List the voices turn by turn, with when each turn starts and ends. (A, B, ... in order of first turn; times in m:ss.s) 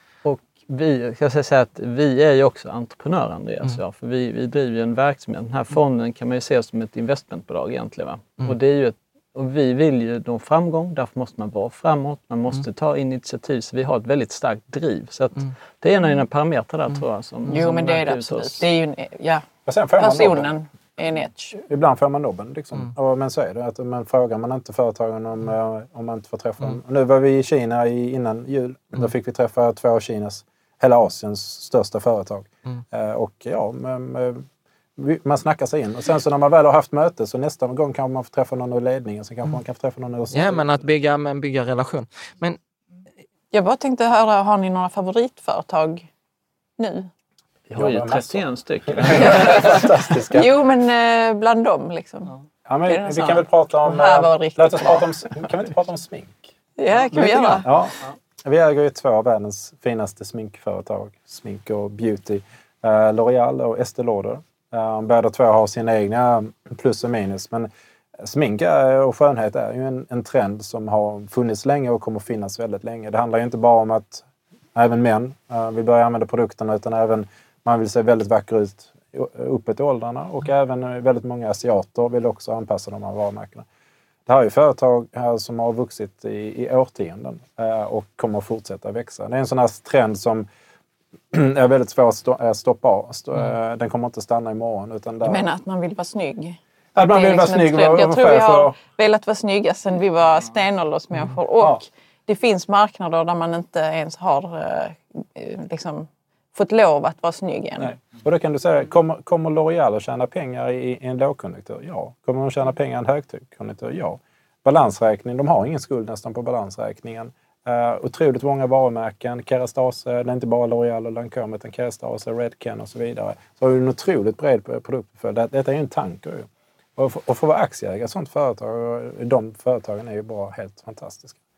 0:00.2-0:18.6 A
0:17.5-0:19.5 B
0:19.7-0:20.5 C
0:20.0-0:21.6 B
0:21.6-0:34.5 C
0:35.0-0:40.6 C
0:40.3-0:42.6 D
0:43.5-0:46.1 B
0:46.8-0:47.1 B
0:47.7-0:49.8 A
0:47.8-0:50.5 C
0:49.2-0:52.3 B
0:52.7-0:56.5 C
0:52.9-0:55.1 B
0:56.8-0:57.7 B
0:57.1-1:23.7 C
1:24.3-1:30.5 C
1:31.3-1:35.5 C
1:35.2-1:47.9 B
1:37.0-1:38.8 C
1:47.8-2:11.4 C